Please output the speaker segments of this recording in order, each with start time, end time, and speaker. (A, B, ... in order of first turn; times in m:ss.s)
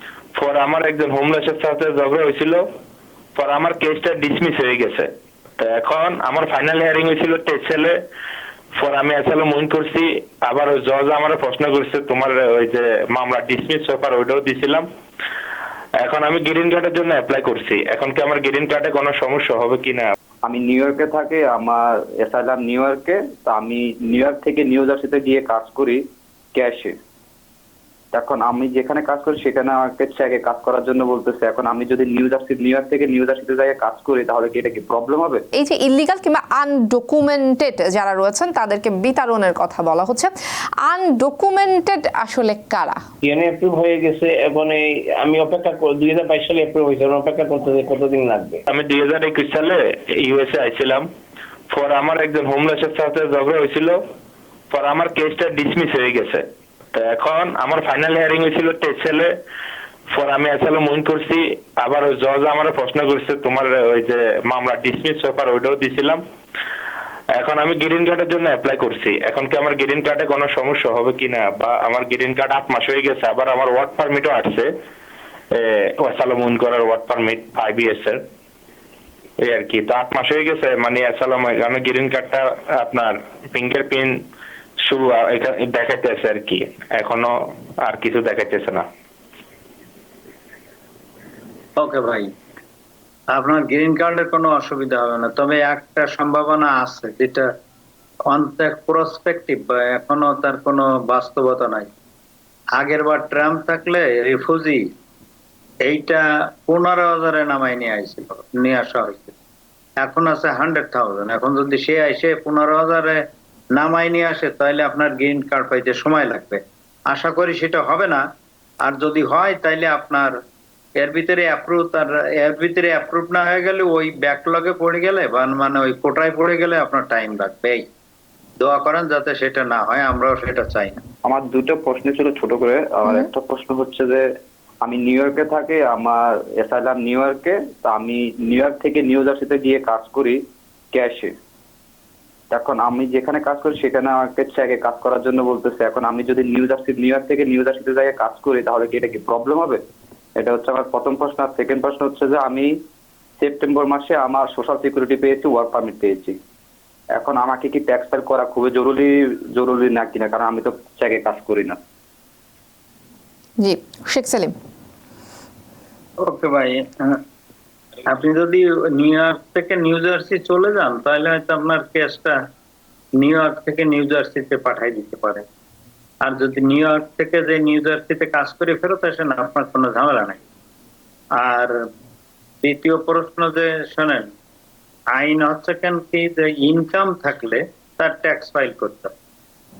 0:00.3-0:02.6 A
0:03.3-0:08.0 A
0:08.8-0:14.9 A
0:16.0-0:20.1 A
0:20.4-0:26.0 B
0:26.5-0:26.9 B
0:28.1-0:35.4 B
0:35.5-0:40.3 C
0:40.8-0:43.0 C
0:43.2-0:48.6 D
0:48.7-0:51.1 A
0:51.7-0:54.0 A
0:54.7-0:59.3 A
1:00.1-1:06.2 A
1:07.4-1:14.7 A
1:15.5-1:18.2 A
1:19.4-1:24.2 A
1:24.8-1:28.8 A
1:31.8-1:32.3 E
1:33.3-1:37.4 E
1:38.3-1:41.9 E
1:42.8-1:44.8 E
1:45.8-1:49.3 E
1:50.0-1:53.2 E
1:53.7-1:58.2 E
1:58.8-2:00.3 E
2:01.0-2:07.8 E
2:08.6-2:11.0 E
2:11.2-2:14.2 B
2:14.8-2:20.4 B
2:20.9-2:21.3 B
2:22.5-2:29.8 B
2:30.4-2:32.7 B
2:33.4-2:36.4 B
2:37.1-2:41.8 B
2:43.6-2:44.5 C
2:46.2-2:47.2 E
2:48.0-2:52.4 E
2:53.2-2:55.4 E
2:56.2-3:00.4 E
3:01.4-3:01.7 E
3:02.6-3:04.3 E
3:05.1-3:09.1 E